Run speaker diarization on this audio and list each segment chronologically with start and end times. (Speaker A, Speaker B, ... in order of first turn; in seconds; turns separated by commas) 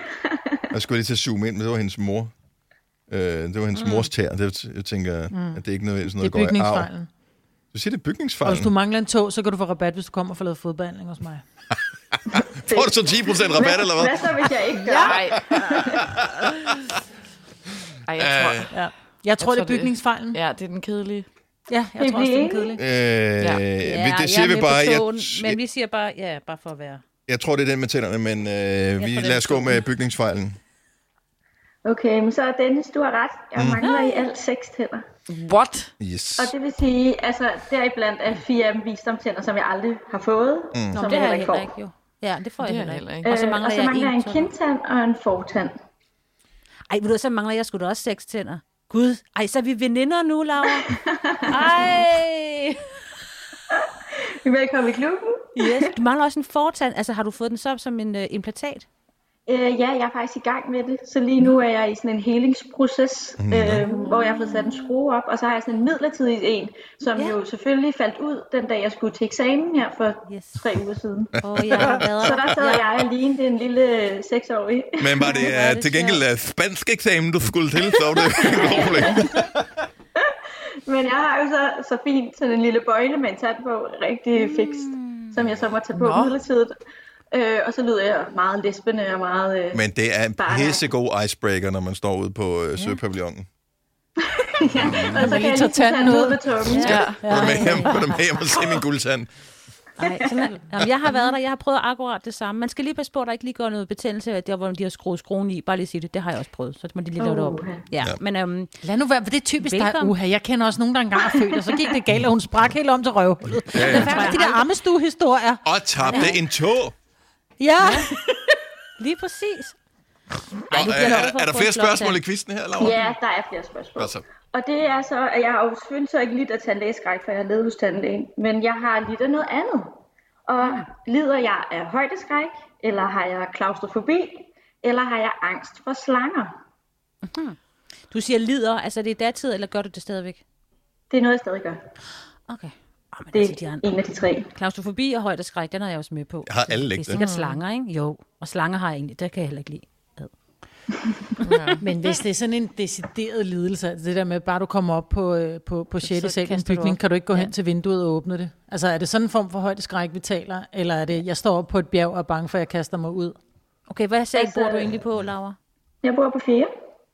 Speaker A: 0.7-2.3, Speaker A: 3.1-6.9, Speaker B: 3.7-4.1, Speaker C: 5.3-5.6, Speaker C: 6.2-7.1, Speaker A: 7.7-8.7, Speaker C: 8.4-11.4, Speaker A: 12.6-14.4, Speaker D: 12.7-16.0, Speaker C: 14.8-15.2, Speaker E: 15.0-15.8, Speaker E: 18.1-18.8, Speaker A: 18.2-18.7, Speaker C: 18.7-20.4, Speaker E: 19.4-21.3, Speaker C: 21.7-22.8, Speaker D: 22.0-22.7, Speaker A: 22.8-25.6, Speaker E: 23.4-23.7, Speaker B: 23.8-27.0, Speaker A: 27.3-30.6, Speaker B: 29.0-29.9, Speaker D: 31.8-35.0, Speaker A: 33.5-33.8, Speaker E: 35.3-35.9, Speaker A: 36.0-36.5, Speaker D: 36.4-41.7, Speaker A: 40.7-41.0, Speaker C: 40.9-41.4, Speaker B: 41.0-44.5, Speaker E: 42.6-43.3, Speaker D: 43.2-45.7, Speaker B: 46.9-50.9, Speaker D: 50.7-51.9, Speaker B: 51.5-52.8, Speaker D: 53.7-55.9, Speaker B: 55.5-58.9, Speaker D: 59.5-75.5, Speaker A: 63.4-63.8, Speaker B: 70.3-70.6, Speaker B: 71.4-72.9, Speaker A: 71.5-72.1, Speaker A: 75.0-79.8, Speaker B: 75.3-76.2, Speaker D: 77.9-79.3, Speaker D: 80.8-86.7, Speaker B: 84.7-85.3, Speaker E: 85.9-86.4, Speaker D: 87.3-89.8, Speaker A: 89.7-93.5, Speaker D: 90.4-90.8, Speaker D: 94.3-97.1, Speaker C: 95.0-98.0, Speaker B: 96.6-98.0, Speaker E: 96.8-97.3, Speaker A: 97.1-99.3, Speaker B: 100.0-108.7, Speaker D: 107.2-107.8, Speaker C: 108.8-116.3, Speaker B: 109.6-110.1, Speaker A: 113.7-114.3, Speaker B: 113.8-114.7, Speaker A: 115.6-116.9, Speaker B: 116.0-116.4, Speaker C: 117.6-118.1, Speaker E: 117.8-118.1, Speaker B: 119.0-119.8, Speaker B: 120.7-122.2, Speaker A: 120.7-123.0, Speaker D: 122.8-136.5, Speaker A: 124.0-124.2, Speaker B: 130.6-130.9, Speaker B: 137.2-137.6, Speaker B: 138.1-140.4, Speaker D: 141.1-141.8, Speaker B: 142.5-143.9, Speaker D: 143.3-144.5, Speaker B: 144.5-150.3, Speaker A: 146.4-147.2, Speaker E: 147.2-147.6, Speaker E: 151.4-151.8, Speaker B: 151.4-151.8, Speaker C: 151.8-163.4, Speaker B: 156.0-157.5, Speaker B: 163.9-165.6, Speaker D: 164.3-165.0, Speaker D: 166.0-166.7